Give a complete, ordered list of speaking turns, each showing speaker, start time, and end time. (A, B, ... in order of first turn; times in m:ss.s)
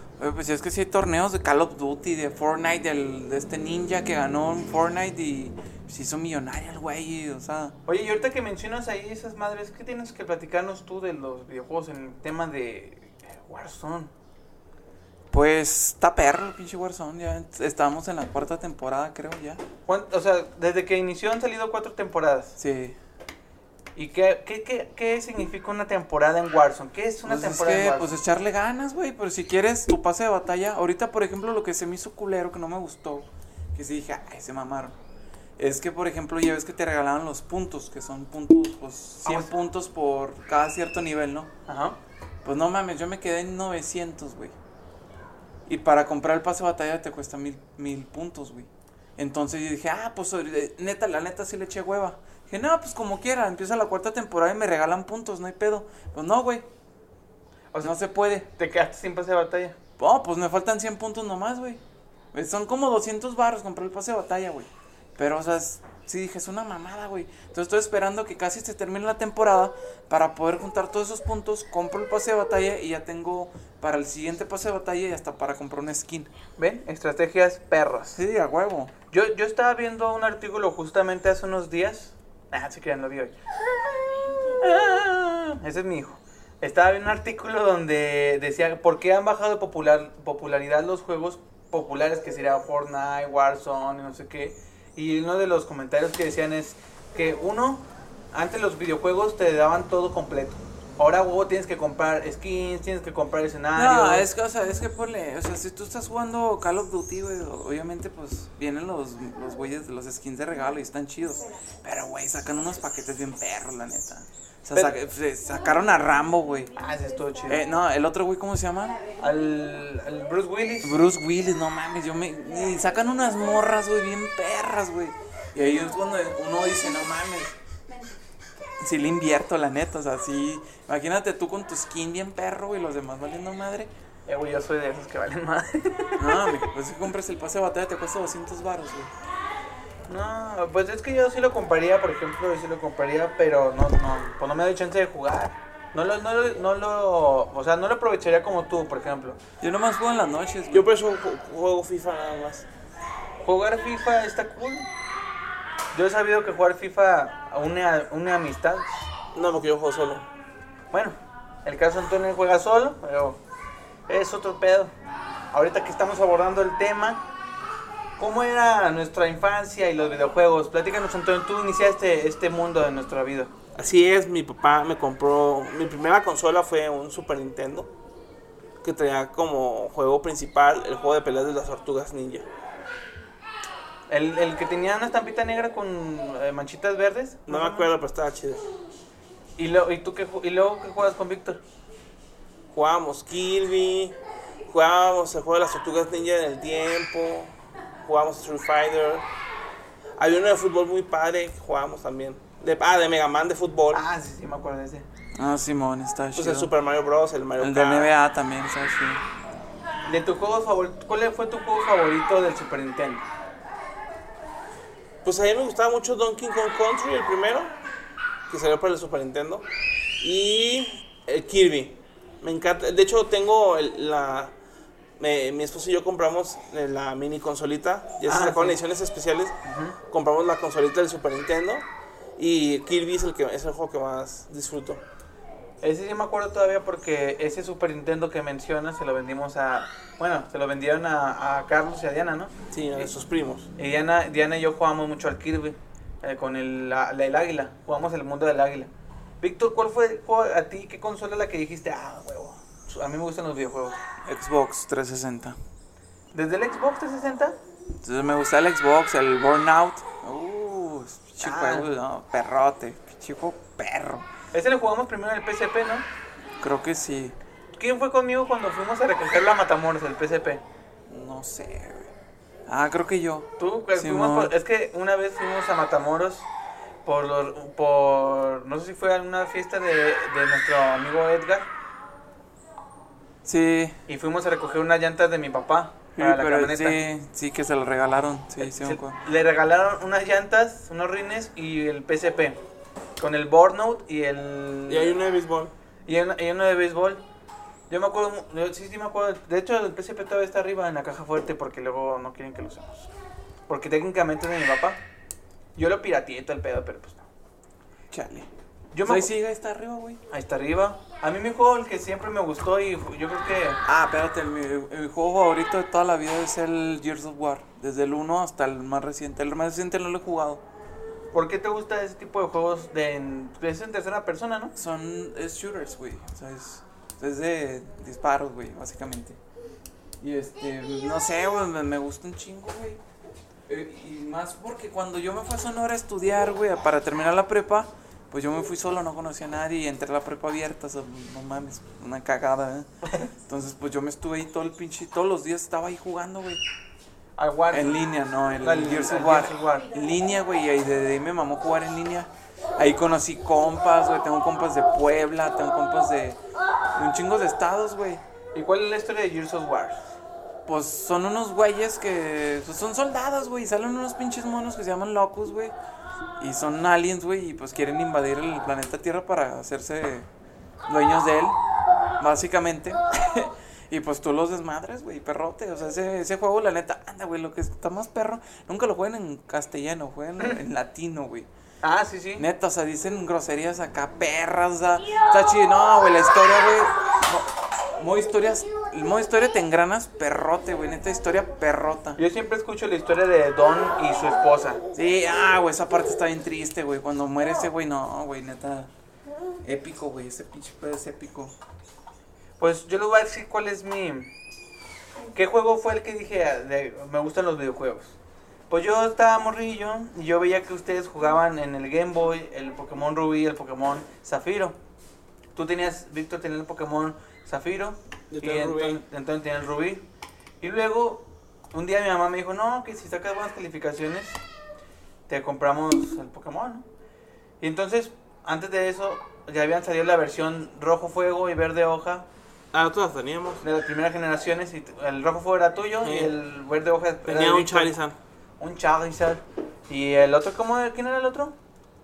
0:00.2-0:07.8 A
0:07.9-0:14.1 B
0:15.3-0:19.6 A
0:19.9-0:22.6 B
0:22.6-0:23.0 A
0:24.0-0:28.1 B
0:27.2-0:34.9 A
0:35.6-0:41.5 A
0:39.2-0:39.5 B
0:41.7-0:42.0 B
0:42.4-0:44.5 A
0:45.7-0:56.6 A
0:57.8-0:58.5 A
0:58.5-0:59.8 B
1:00.0-1:01.8 A
1:02.3-1:16.3 A
1:16.6-1:18.2 B
1:18.1-1:18.9 A
1:19.1-1:23.3 B
1:23.9-1:44.2 B
1:43.7-1:56.7 A
1:56.7-1:57.6 B
1:57.5-1:59.0 A
1:59.2-2:01.0 B
2:00.8-2:07.6 A
2:08.8-2:13.9 A
2:14.3-2:16.6 B
2:16.2-2:19.1 A
2:20.1-2:29.4 B
2:29.6-2:30.9 A
2:30.7-2:32.7 C
2:33.4-2:34.9 B
2:35.9-2:39.1 B
2:39.3-2:40.3 C
2:40.9-2:43.4 B
2:44.1-2:44.9 B
2:45.5-2:47.2 B
2:48.2-2:53.5 B
2:53.7-2:57.9 C
2:58.8-3:02.5 C
3:04.1-3:07.9 B
3:07.5-3:08.6 C
3:09.6-3:11.6 B
3:12.7-3:14.2 C
3:14.7-3:19.3 C
3:20.2-3:24.0 C
3:23.9-3:25.0 B
3:25.4-3:26.7 A
3:26.4-3:28.1 C
3:27.6-3:29.2 A
3:30.0-3:33.2 B
3:35.2-3:37.7 C
3:38.5-3:39.6 C
3:40.2-3:44.5 C
3:45.2-3:55.0 C
3:48.3-3:48.8 B
3:49.6-3:50.0 B
3:55.8-4:03.1 B
4:02.7-4:03.7 C
4:03.8-4:08.9 B
4:09.4-4:14.0 B
4:14.2-4:15.6 A
4:16.3-4:17.6 B
4:18.0-4:24.2 A
4:21.4-4:21.9 B
4:24.5-4:26.1 B
4:26.6-4:27.4 A
4:27.8-4:30.6 B
4:31.1-4:32.1 A
4:32.7-4:34.5 A
4:33.6-4:36.5 B
4:37.0-4:41.7 B
4:43.4-4:44.0 A
4:44.1-4:47.0 B
4:46.2-4:49.2 A
4:48.6-4:52.6 B
4:53.2-4:55.2 B
4:54.9-4:55.7 C
4:56.1-4:57.2 B
4:57.9-5:03.1 B
5:03.7-5:05.0 B
5:05.8-5:07.2 B
5:08.1-5:08.5 A
5:08.9-5:09.3 B
5:09.0-5:10.2 A
5:10.3-5:13.8 B
5:13.8-5:20.6 A
5:21.3-5:24.7 B
5:24.8-5:29.4 A
5:30.2-5:33.0 A
5:33.7-5:46.6 A
5:47.4-5:48.0 B
5:47.7-5:56.4 A
5:48.6-5:49.9 B
5:57.0-5:58.2 A
5:58.5-6:00.0 B
6:00.6-6:05.7 A
6:06.4-6:10.3 A
6:10.9-6:11.6 A
6:12.2-6:21.5 A
6:21.8-6:22.4 B
6:22.4-6:32.2 A
6:32.2-6:34.8 B
6:34.9-6:38.9 A
6:39.6-6:41.5 A
6:42.6-6:44.3 B
6:45.3-6:48.2 B
6:48.7-6:54.8 B
6:55.5-7:00.0 B
6:58.3-6:59.0 C
7:00.6-7:04.4 B
7:05.3-7:06.8 B
7:07.6-7:12.3 B
7:12.7-7:13.6 C
7:13.6-7:17.9 B
7:16.0-7:16.3 C
7:17.2-7:18.2 C
7:18.6-7:21.5 B